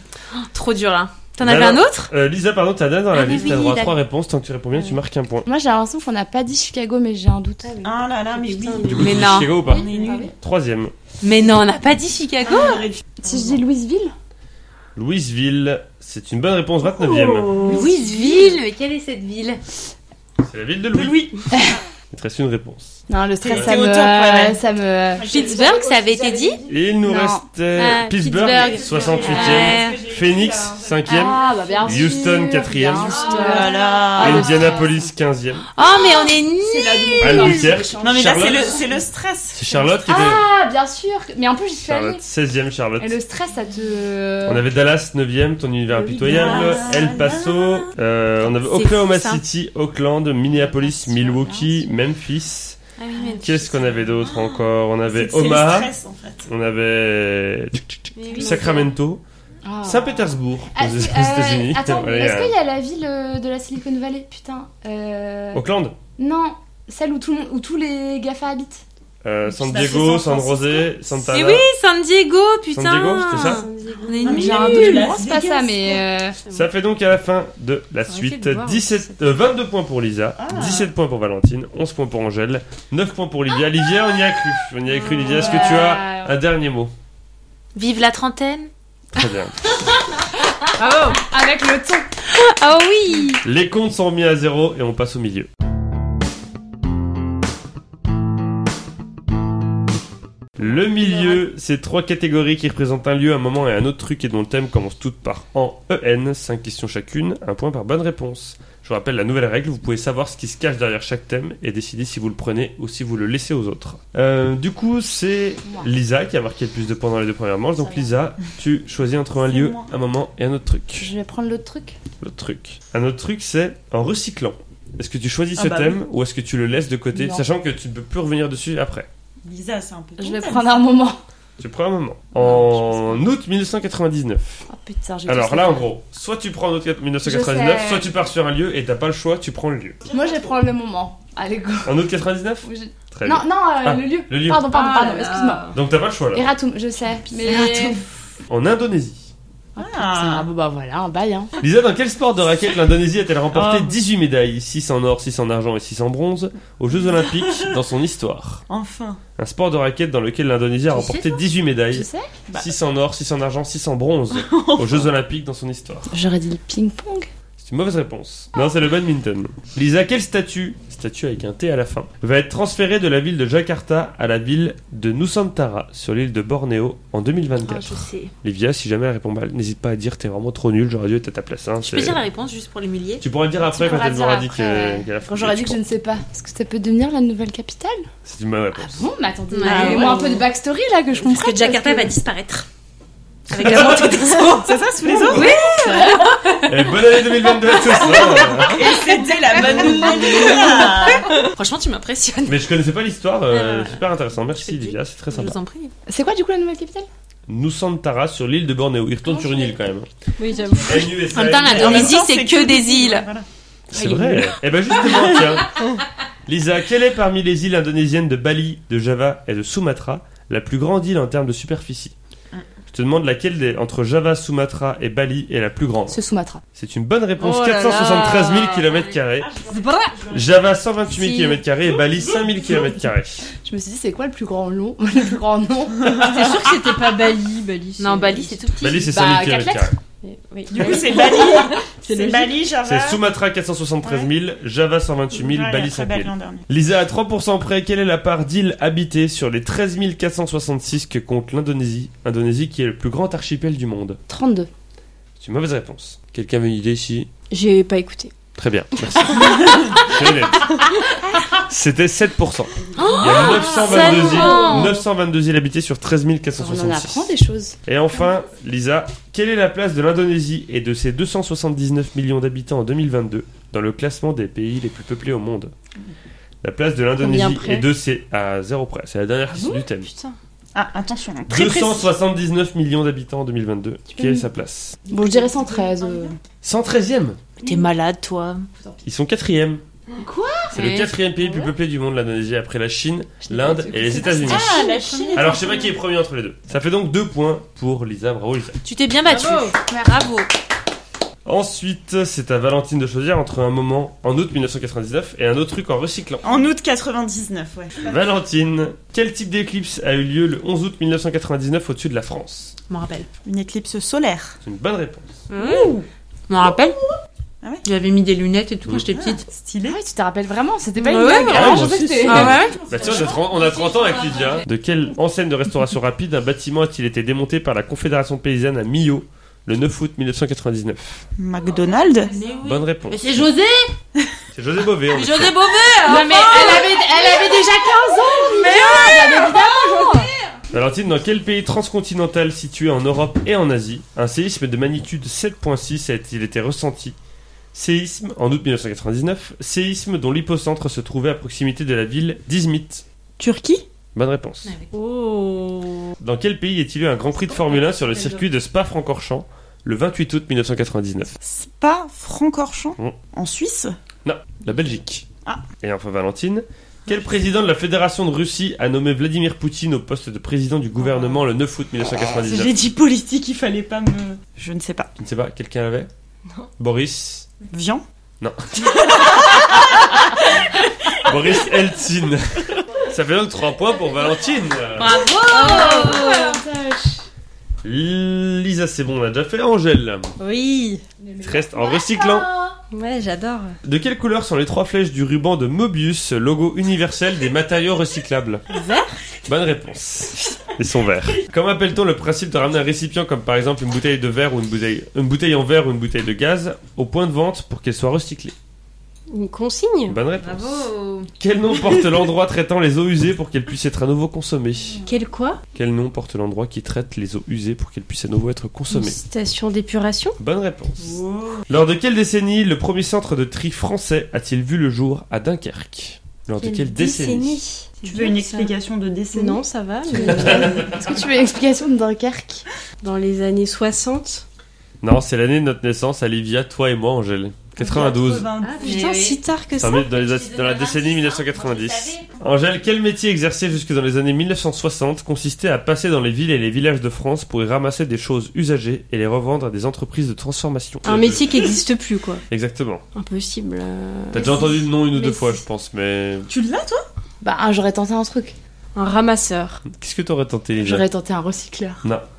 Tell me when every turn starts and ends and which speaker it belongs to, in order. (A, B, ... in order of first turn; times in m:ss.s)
0:00.3-0:02.1 A
0:01.4-0:05.5 B
0:03.1-0:04.0 A
0:05.5-0:07.8 C
0:07.6-0:09.2 D
0:07.8-0:10.3 E
0:08.8-0:09.6 A
0:08.9-0:10.9 B
0:09.6-0:10.3 C
0:11.2-0:12.9 A
0:12.4-0:13.6 E
0:13.2-0:14.1 C
0:15.0-0:17.6 B
0:16.9-0:17.9 D
0:17.6-0:18.6 C
0:17.7-0:19.6 A
0:20.4-0:21.2 B
0:20.9-0:21.4 E
0:21.5-0:21.8 C
0:22.1-0:23.0 B
0:23.1-0:27.4 C
0:23.4-0:24.6 E
0:23.5-0:23.8 B
0:25.1-0:25.9 E
0:25.3-0:26.6 A
0:26.7-0:33.2 B
0:27.8-0:30.0 A
0:28.4-0:32.0 E
0:31.1-0:35.0 C
0:33.1-0:34.8 E
0:33.2-0:33.7 A
0:33.3-0:33.8 D
0:34.2-0:35.7 B
0:35.7-0:37.7 A
0:36.6-0:38.8 C
0:37.2-0:38.8 B
0:38.0-0:40.0 E
0:39.6-0:40.4 B
0:40.1-0:42.2 C
0:41.8-0:43.2 B
0:43.0-0:44.7 C
0:44.4-0:52.8 B
0:45.9-0:47.0 C
0:46.2-0:47.9 E
0:48.6-0:49.4 A
0:50.6-0:52.0 C
0:53.0-0:53.7 A
0:53.4-0:55.9 B
0:55.1-0:56.5 E
0:56.5-0:59.2 B
0:58.2-0:58.9 D
0:58.2-0:58.8 A
0:59.6-1:05.6 C
0:59.8-1:02.6 B
1:05.5-1:06.0 B
1:06.2-1:08.8 C
1:09.2-1:11.7 B
1:09.5-1:10.9 E
1:11.3-1:15.1 A
1:12.7-1:13.7 B
1:13.3-1:15.1 D
1:14.2-1:16.0 E
1:14.2-1:16.4 C
1:16.5-1:26.9 B
1:18.1-1:19.1 D
1:20.4-1:20.9 E
1:25.2-1:26.3 C
1:27.8-1:28.7 A
1:29.1-1:29.6 B
1:30.8-1:32.1 C
1:32.3-1:33.4 A
1:33.4-1:35.5 B
1:40.6-2:01.1 B
1:55.6-1:55.9 C
1:57.8-1:58.1 C
1:59.4-1:59.9 E
2:01.0-2:02.0 C
2:02.2-2:09.1 B
2:05.6-2:06.0 E
2:07.1-2:07.4 C
2:09.4-2:10.8 E
2:10.2-2:11.2 C
2:11.6-2:14.6 B
2:12.4-2:13.2 C
2:14.7-2:15.9 C
2:15.3-2:20.0 B
2:17.2-2:18.1 C
2:20.1-2:22.0 C
2:21.8-2:24.7 B
2:22.6-2:25.7 C
2:24.7-2:25.7 D
2:25.7-2:26.5 B
2:26.3-2:28.0 C
2:27.3-2:28.0 D
2:28.5-2:29.3 B
2:29.8-2:31.5 C
2:29.8-2:30.5 E
2:31.6-2:38.6 B
2:33.5-2:34.0 E
2:37.2-2:37.7 E
2:38.7-2:39.2 E
2:39.4-2:46.1 B
2:40.9-2:41.4 A
2:41.9-2:42.3 C
2:42.5-2:42.7 E
2:44.3-2:45.1 E
2:46.1-2:47.3 C
2:47.6-3:02.2 B
2:57.6-2:58.3 A
3:01.8-3:03.2 A
3:03.2-3:05.8 B
3:03.6-3:08.1 C
3:08.2-3:09.1 B
3:08.8-3:12.2 C
3:09.5-3:10.4 A
3:09.7-3:10.3 D
3:09.7-3:10.1 E
3:11.2-3:12.7 A
3:13.5-3:14.4 B
3:13.5-3:16.7 A
3:13.7-3:15.6 E
3:15.3-3:16.3 C
3:16.7-3:18.9 B
3:18.4-3:21.4 E
3:19.6-3:20.8 C
3:19.6-3:20.8 D
3:20.2-3:22.6 A
3:22.5-3:25.6 B
3:23.5-3:25.9 A
3:26.1-3:27.1 C
3:27.5-3:30.1 B
3:29.4-3:29.7 C
3:30.4-3:31.1 D
3:30.5-3:30.9 C
3:30.8-3:32.2 B
3:31.3-3:33.3 A
3:31.4-3:33.5 E
3:33.9-3:35.8 B
3:34.0-3:34.4 A
3:36.5-3:42.2 B
3:42.9-3:46.2 B
3:46.1-3:46.6 C
3:46.8-3:49.5 B
3:47.4-3:48.9 D
3:49.4-3:50.7 E
3:49.7-3:50.1 D
3:50.3-3:53.4 B
3:51.9-3:52.9 E
3:53.6-3:56.4 C
3:56.1-3:58.6 D
3:58.0-3:59.1 A
3:58.8-4:00.0 B
3:59.0-4:00.0 C
4:00.2-4:02.6 D
4:00.7-4:03.2 E
4:00.8-4:01.2 C
4:02.8-4:14.2 B
4:04.0-4:04.3 E
4:05.4-4:06.7 E
4:14.3-4:14.7 C
4:15.4-4:17.3 B
4:17.5-4:18.3 D
4:18.6-4:20.8 B
4:21.5-4:27.3 B
4:23.0-4:25.0 A
4:23.0-4:24.9 C
4:23.3-4:23.6 D
4:26.6-4:27.8 C
4:27.9-4:35.7 B
4:36.6-4:40.1 B
4:37.2-4:37.9 D
4:39.5-4:39.8 C
4:40.7-4:42.1 E
4:41.5-4:45.0 B
4:44.1-4:44.5 C
4:45.1-4:46.4 C
4:45.2-4:46.4 E
4:46.6-4:47.4 B
4:47.6-4:48.7 A
4:49.0-4:49.8 B
4:50.2-4:50.8 C
4:50.7-4:51.1 A
4:50.7-4:58.8 B
4:53.4-4:54.9 C
4:54.3-4:55.9 E
4:54.5-4:55.6 A
4:58.8-5:00.5 A
4:59.3-4:59.8 D
5:01.4-5:06.5 B
5:06.4-5:08.2 E
5:08.0-5:12.8 B
5:12.9-5:13.3 A
5:13.4-5:14.6 E
5:14.6-5:15.4 B
5:15.5-5:16.0 A
5:15.5-5:16.1 E
5:16.5-5:17.0 A
5:17.8-5:19.4 A
5:19.1-5:20.0 E
5:19.9-5:22.6 C
5:21.1-5:22.8 D
5:21.1-5:24.6 A
5:21.5-5:31.3 B
5:31.4-5:32.3 E
5:32.3-5:33.9 A
5:32.6-5:33.3 B
5:34.5-5:35.6 B
5:35.1-5:40.4 A
5:36.0-5:40.3 C
5:40.7-5:47.2 B
5:47.7-5:53.0 B
5:53.4-5:53.8 E
5:54.2-5:54.7 B
5:54.9-5:56.2 D
5:56.2-6:01.4 B
6:01.4-6:04.0 E
6:04.2-6:05.3 B
6:05.8-6:12.8 B
6:12.3-6:15.1 E
6:15.2-6:16.1 B
6:16.8-6:17.5 B
6:17.7-6:18.0 E
6:18.4-6:18.9 B
6:19.0-6:20.0 E
6:20.6-6:21.3 E
6:21.2-6:25.3 B
6:25.0-6:26.6 A
6:25.4-6:27.2 C
6:25.5-6:26.6 D
6:27.8-6:30.3 B
6:30.4-6:31.0 D
6:31.2-6:32.8 C
6:31.4-6:32.5 B
6:32.9-6:33.8 D
6:33.8-6:38.6 B
6:38.7-6:39.2 D
6:39.5-6:48.6 B
6:49.3-6:50.2 D
6:50.1-6:50.9 B
6:50.4-6:51.3 A
6:51.4-6:55.0 B
6:55.1-6:55.6 A
6:55.8-6:59.2 B
6:58.9-7:00.4 D
7:00.4-7:07.6 B
7:01.0-7:01.7 E
7:06.6-7:08.7 D
7:08.0-7:09.6 E
7:09.3-7:10.8 D
7:10.1-7:12.6 C
7:10.3-7:11.1 B
7:13.0-7:14.4 D
7:15.0-7:18.5 B
7:17.8-7:19.1 E
7:18.6-7:19.4 A
7:18.8-7:20.1 D
7:19.8-7:31.5 B
7:19.9-7:22.4 A
7:31.0-7:32.4 D
7:32.5-7:33.0 B
7:33.2-7:34.6 D
7:34.3-7:36.5 B
7:34.4-7:35.6 C
7:36.5-7:37.1 E
7:37.4-7:38.6 C
7:39.0-7:39.8 D
7:39.9-7:41.1 B
7:40.8-7:42.0 C